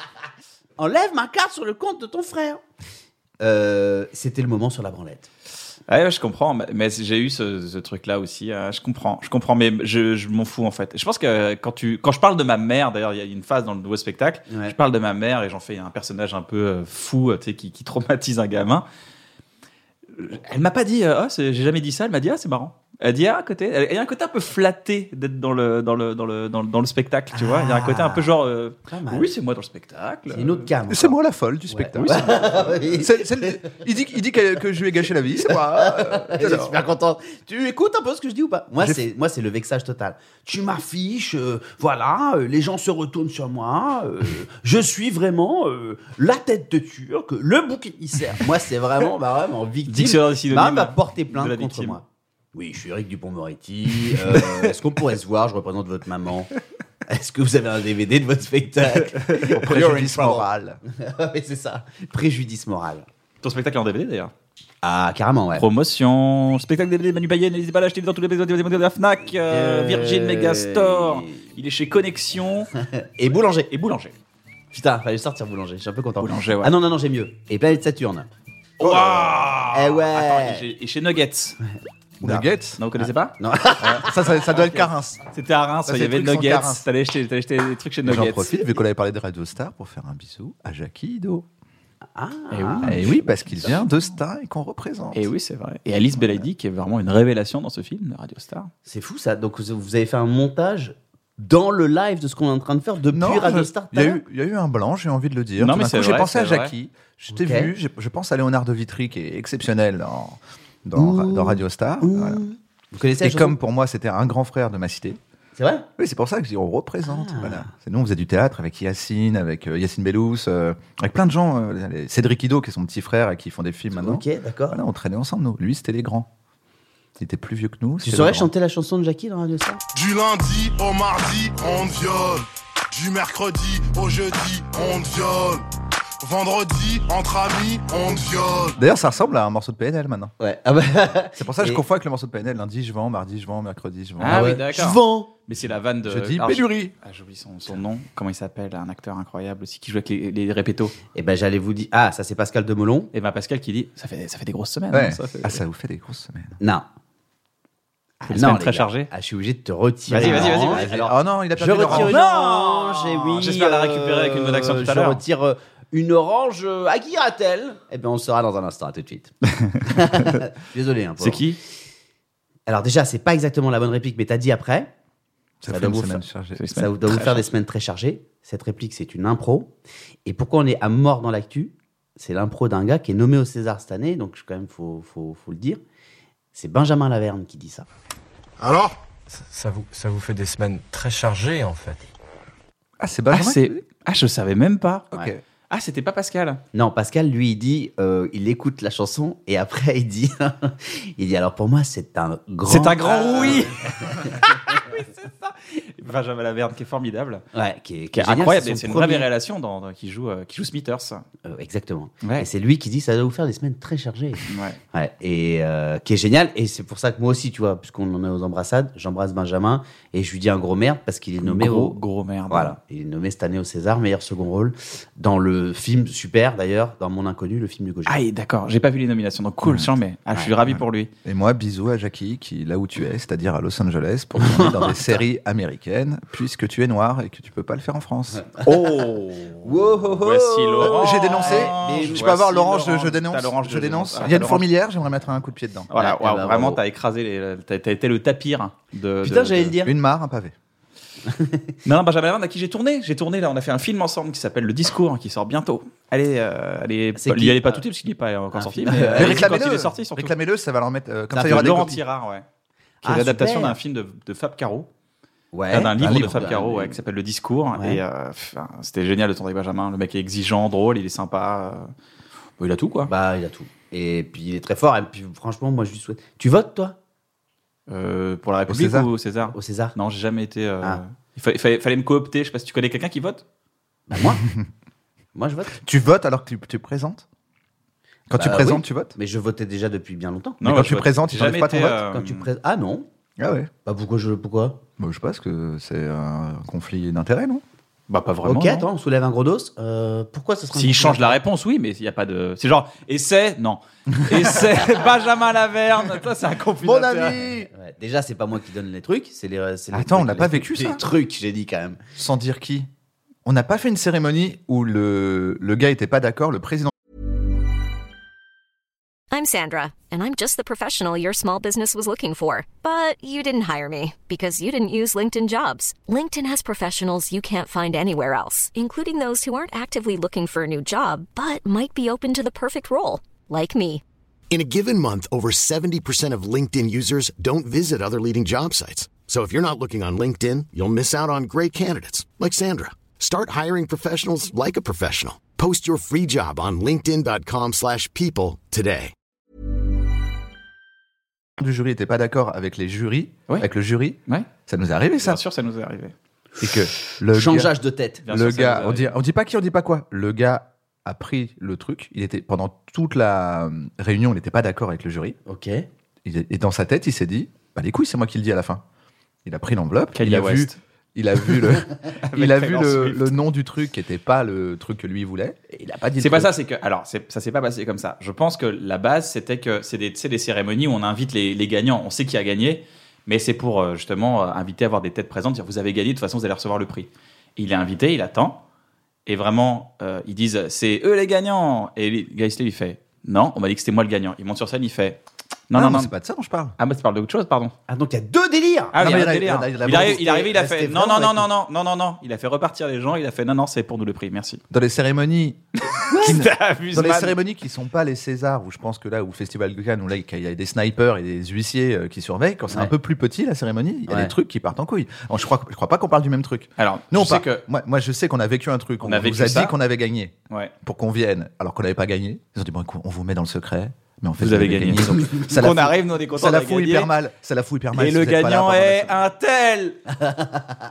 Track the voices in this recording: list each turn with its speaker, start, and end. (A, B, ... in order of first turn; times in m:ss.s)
0:00.8-0:02.6 A
0:03.4-0:05.3 A
0:05.9-0:18.8 B
0:20.1-0:30.7 B
0:27.3-0:28.3 A
0:28.8-0:29.3 A
0:30.3-0:31.2 A
0:30.9-0:36.8 C
0:31.7-0:33.7 A
0:32.0-0:32.7 B
0:35.5-0:52.0 A
0:49.9-0:52.0 B
0:52.5-0:56.5 A
0:57.1-1:03.0 A
0:59.4-1:00.8 C
1:03.4-1:04.3 B
1:04.8-1:05.6 A
1:05.6-1:12.7 B
1:09.5-1:11.4 A
1:12.9-1:13.7 A
1:13.7-1:14.2 B
1:14.7-1:18.3 A
1:16.2-1:16.7 B
1:18.8-1:21.6 B
1:18.8-1:19.6 C
1:19.7-1:20.6 A
1:22.2-1:22.8 C
1:22.2-1:28.5 B
1:23.0-1:24.1 A
1:24.0-1:25.2 C
1:25.9-1:26.8 C
1:28.0-1:31.5 C
1:32.1-1:33.1 A
1:32.5-1:33.8 B
1:32.8-1:35.3 C
1:35.1-1:38.7 B
1:38.8-1:44.2 A
1:43.1-1:52.4 C
1:45.6-1:46.7 B
1:47.3-1:47.7 A
1:50.9-1:53.6 A
1:53.2-1:55.2 C
1:55.6-1:55.9 A
1:56.0-2:06.3 C
1:57.0-1:57.7 A
2:03.9-2:04.8 A
2:07.2-2:08.5 C
2:08.0-2:09.8 A
2:09.9-2:15.6 D
2:16.2-2:18.8 D
2:18.8-2:20.3 C
2:20.4-2:21.8 A
2:21.4-2:24.5 C
2:24.2-2:31.0 B
2:24.2-2:25.3 A
2:26.0-2:26.9 C
2:31.1-2:33.1 A
2:33.1-2:35.6 B
2:34.9-2:36.6 C
2:36.6-2:36.8 A
2:38.2-2:49.3 A
2:38.3-2:39.1 B
2:40.1-2:41.0 B
2:40.2-2:42.2 C
2:41.8-2:45.2 B
2:49.6-2:50.4 B
2:49.8-2:51.4 A
2:51.2-2:51.6 B
2:52.7-2:54.9 A
2:55.6-2:56.6 C
2:55.6-2:56.2 A
2:56.6-2:57.4 B
2:56.7-2:59.7 A
3:00.2-3:05.8 A
3:06.5-3:07.8 A
3:08.6-3:09.0 D
3:09.3-3:12.1 E
3:13.0-3:13.8 C
3:13.3-3:15.1 B
3:15.1-3:15.4 C
3:15.7-3:16.6 B
3:16.7-3:24.7 A
3:22.7-3:27.4 B
3:27.5-3:29.2 A
3:28.1-3:31.2 B
3:31.4-3:42.0 A
3:34.5-3:34.8 B
3:41.4-3:42.7 B
3:42.5-3:48.2 A
3:48.1-3:51.1 B
3:49.6-3:49.9 C
3:50.6-3:58.4 C
3:54.4-3:55.2 A
3:58.6-4:04.7 B
3:59.6-4:02.6 A
4:00.8-4:05.9 C
4:05.9-4:09.7 B
4:05.9-4:06.8 A
4:09.2-4:09.9 A
4:09.8-4:10.5 C
4:11.2-4:11.7 A
4:11.8-4:20.3 B
4:17.2-4:17.8 A
4:18.5-4:19.5 A
4:19.2-4:22.0 C
4:21.3-4:21.9 A
4:21.4-4:22.4 B
4:23.0-4:24.9 B
4:23.0-4:23.8 A
4:25.5-4:27.0 A
4:25.7-4:31.9 B
4:26.0-4:26.4 C
4:27.7-4:28.0 A
4:32.6-4:33.1 B
4:33.1-4:37.0 A
4:37.9-4:43.4 B
4:38.7-4:39.1 C
4:39.5-4:39.9 A
4:44.1-4:44.4 A
4:45.3-4:45.8 A
4:45.8-4:47.2 C
4:48.3-4:49.1 C
4:48.4-4:50.6 A
4:50.6-4:52.4 B
4:50.6-4:52.0 C
4:52.1-4:53.0 A
4:53.4-4:53.7 C
4:53.8-4:54.8 A
4:55.0-4:57.6 C
4:58.1-4:58.9 B
4:58.4-5:01.4 A
5:00.7-5:07.4 B
5:06.8-5:07.7 C
5:07.7-5:12.0 A
5:09.9-5:11.0 C
5:12.2-5:12.9 C
5:13.4-5:16.9 C
5:19.3-5:34.0 F
5:34.5-5:49.1 G
5:51.6-5:55.4 C
5:55.2-5:56.1 B
5:56.6-5:57.7 C
5:57.2-5:58.2 A
5:58.2-5:59.1 B
5:58.2-6:05.4 C
6:05.4-6:05.8 A
6:06.2-6:08.8 C
6:09.4-6:16.5 C
6:10.1-6:10.8 B
6:12.2-6:13.3 B
6:16.2-6:28.6 B
6:29.2-6:36.1 B
6:35.7-6:36.8 C
6:36.8-6:37.7 B
6:37.9-6:39.0 A
6:38.9-6:44.6 B
6:38.9-6:40.3 C
6:39.9-6:41.4 A
6:44.7-6:45.6 C
6:45.9-6:47.4 B
6:46.1-6:46.3 A
6:46.2-7:09.2 C
6:54.1-6:54.3 A
6:56.8-6:57.6 B
6:59.0-6:59.7 B
7:04.4-7:07.1 B
7:07.9-7:10.0 B
7:10.2-7:10.6 A